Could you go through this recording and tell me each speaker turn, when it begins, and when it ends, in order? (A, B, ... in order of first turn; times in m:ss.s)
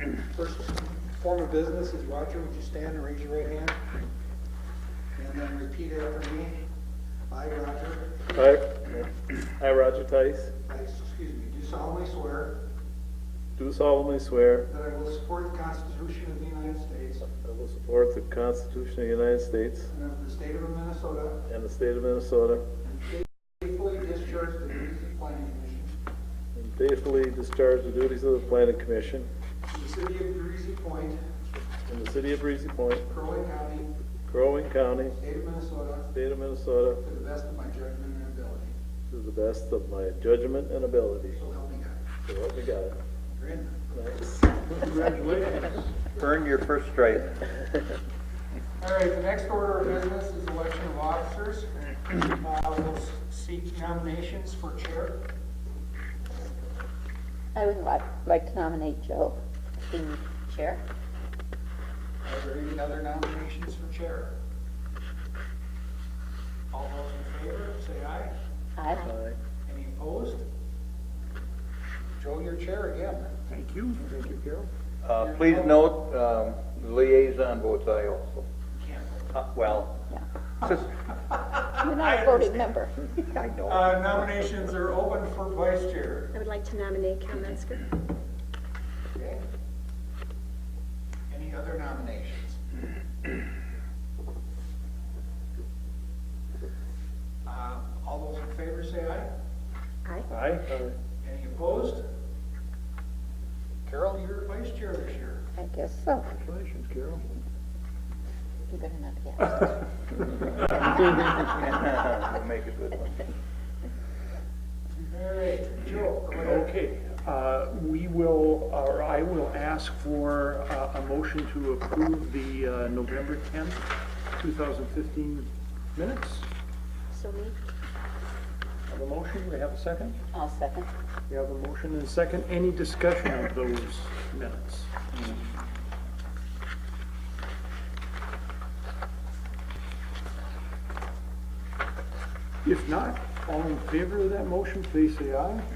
0:00.2-0:03.8 A
0:05.1-0:06.6 A
0:07.3-0:08.3 A
0:08.3-0:10.5 B
0:10.7-0:12.6 A
0:13.6-0:14.7 B
0:14.7-0:17.2 A
0:17.4-0:19.9 B
0:19.9-0:21.4 A
0:21.5-0:22.7 B
0:22.8-0:25.9 A
0:26.5-0:29.3 B
0:29.7-0:31.2 A
0:31.9-0:33.1 B
0:33.1-0:33.9 A
0:34.3-0:35.2 B
0:35.2-0:36.1 A
0:36.1-0:37.0 B
0:37.0-0:38.7 A
0:39.1-0:41.4 B
0:41.3-0:42.0 A
0:42.3-0:43.0 B
0:43.3-0:43.8 A
0:43.9-0:44.6 B
0:44.7-0:45.9 C
0:46.1-0:47.4 D
0:48.8-0:55.2 A
0:57.6-0:59.4 E
0:59.9-1:00.8 E
1:02.2-1:04.4 A
1:06.7-1:08.3 A
1:08.8-1:09.1 E
1:09.0-1:09.4 B
1:09.7-1:10.4 A
1:12.2-1:13.4 A
1:13.5-1:14.7 C
1:15.0-1:18.5 D
1:15.2-1:15.8 A
1:18.8-1:19.3 A
1:19.3-1:20.0 D
1:21.2-1:22.7 A
1:21.8-1:22.9 E
1:23.2-1:24.1 D
1:23.6-1:26.3 A
1:26.3-1:28.0 F
1:29.1-1:29.4 A
1:31.3-1:32.6 A
1:37.4-1:39.3 A
1:40.3-1:40.9 C
1:41.2-1:42.0 A
1:43.8-1:45.5 A
1:45.6-1:46.3 E
1:46.3-1:47.2 C
1:48.7-1:49.7 E
1:51.0-1:53.3 D
1:55.0-1:56.7 A
1:56.4-2:06.5 C
2:07.1-2:07.6 F
2:08.9-2:10.2 C
2:10.3-2:10.9 E
2:11.3-2:15.3 C
2:22.6-2:25.7 C